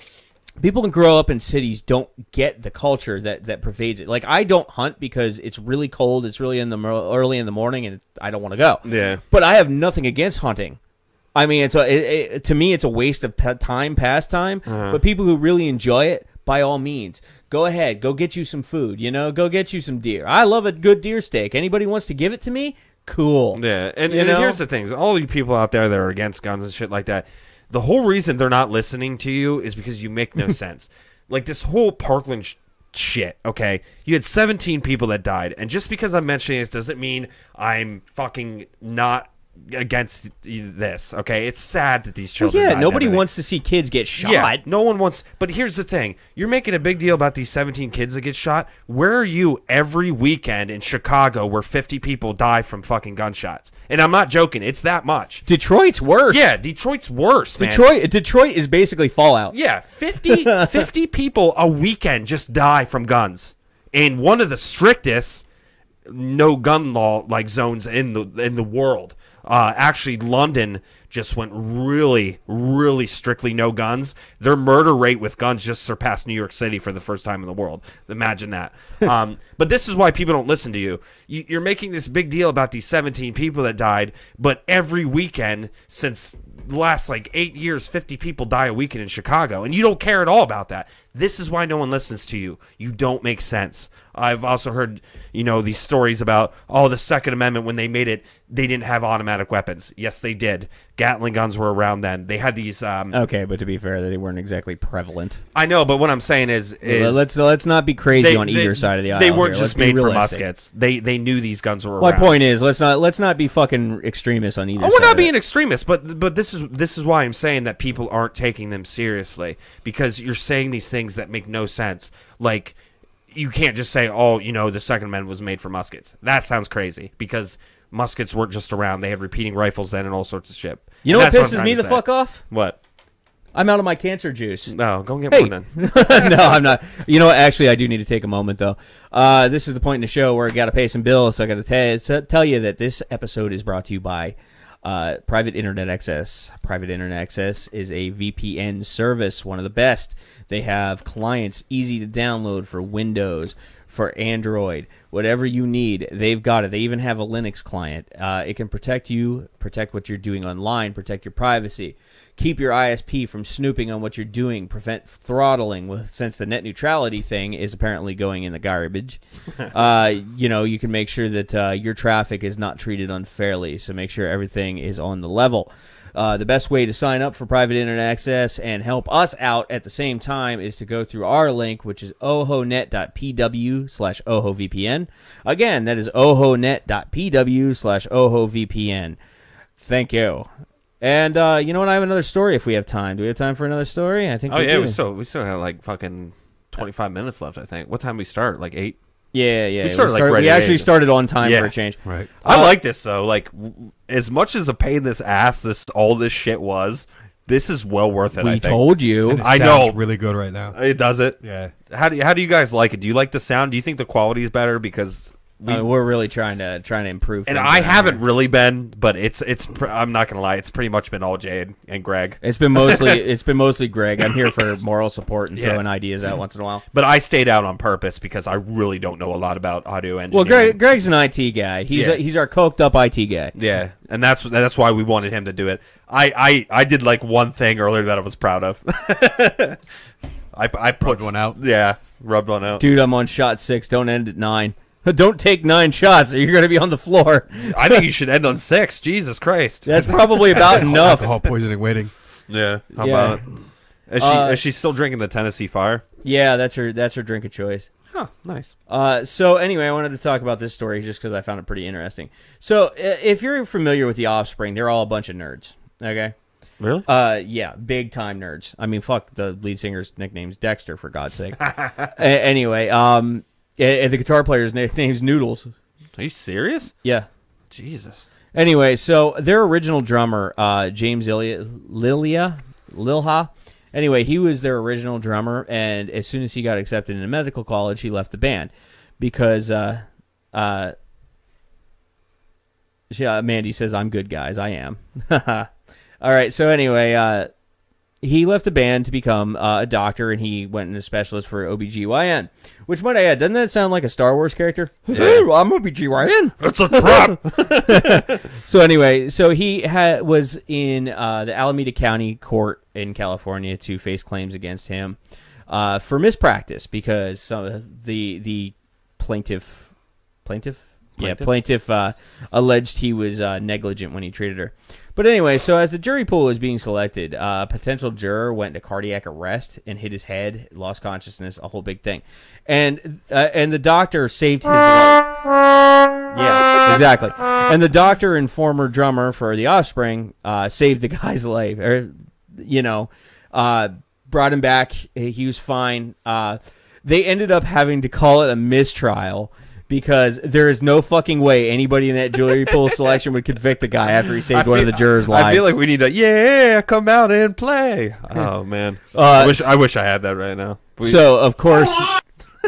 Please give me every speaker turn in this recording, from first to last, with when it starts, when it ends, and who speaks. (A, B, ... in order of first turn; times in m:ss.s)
0:00.6-0:10.8 A
0:08.8-0:09.2 B
0:11.3-0:24.6 A
0:14.6-0:15.0 B
0:23.5-0:43.2 B
0:42.4-0:44.6 A
0:44.2-0:55.5 B
0:55.5-0:56.5 A
0:56.3-0:57.9 B
0:57.6-0:59.6 A
0:59.5-1:05.4 B
1:00.2-1:00.8 A
1:06.0-1:43.2 B
1:43.1-1:45.4 A
1:45.5-1:47.3 B
1:46.8-1:50.4 A
1:48.1-1:52.4 B
1:52.0-1:55.3 A
1:54.8-2:02.8 B
2:03.3-2:12.8 B
2:11.0-2:12.4 A
2:13.5-2:14.7 A
2:14.7-2:16.7 B
2:15.3-3:09.2 A
3:09.8-3:10.5 A
3:11.0-3:15.0 A
3:14.5-3:19.0 B
3:19.3-3:22.7 A
3:19.8-3:21.7 B
3:22.0-3:22.3 C
3:22.4-3:28.8 B
3:28.4-3:29.5 A
3:29.3-3:30.8 C
3:29.4-3:30.0 B
3:30.7-3:35.9 B
3:31.4-3:31.7 C
3:35.7-3:38.2 A
3:37.5-3:43.2 B
3:42.4-3:46.8 A
3:44.2-3:44.5 B
3:45.5-3:45.8 B
3:46.9-3:50.8 B
3:50.3-3:53.5 A
3:51.9-3:52.2 B
3:53.5-3:59.8 B
4:00.5-4:02.9 B
4:01.0-4:01.6 C
4:02.8-4:08.0 A
4:07.6-4:11.5 B
4:09.9-4:11.3 A
4:10.0-4:12.1 C
4:12.5-4:16.0 B
4:13.0-4:13.4 A
4:14.2-4:14.6 A
4:16.2-4:17.9 A
4:18.1-4:18.7 B
4:18.9-4:26.3 A
4:26.8-4:27.1 B
4:27.0-4:35.7 A
4:31.6-4:32.1 B
4:36.2-4:36.9 B
4:37.0-4:37.3 A
4:37.7-4:38.2 B
4:38.5-4:50.9 A
4:53.1-4:55.7 A
4:56.2-4:57.5 A
4:58.2-5:19.9 A
5:05.1-5:05.4 B
5:06.6-5:08.4 B
5:20.4-5:35.3 A
5:21.2-5:21.5 B
5:36.3-5:55.7 A
5:54.5-6:02.1 B
5:59.1-5:59.7 A
6:01.0-6:02.1 A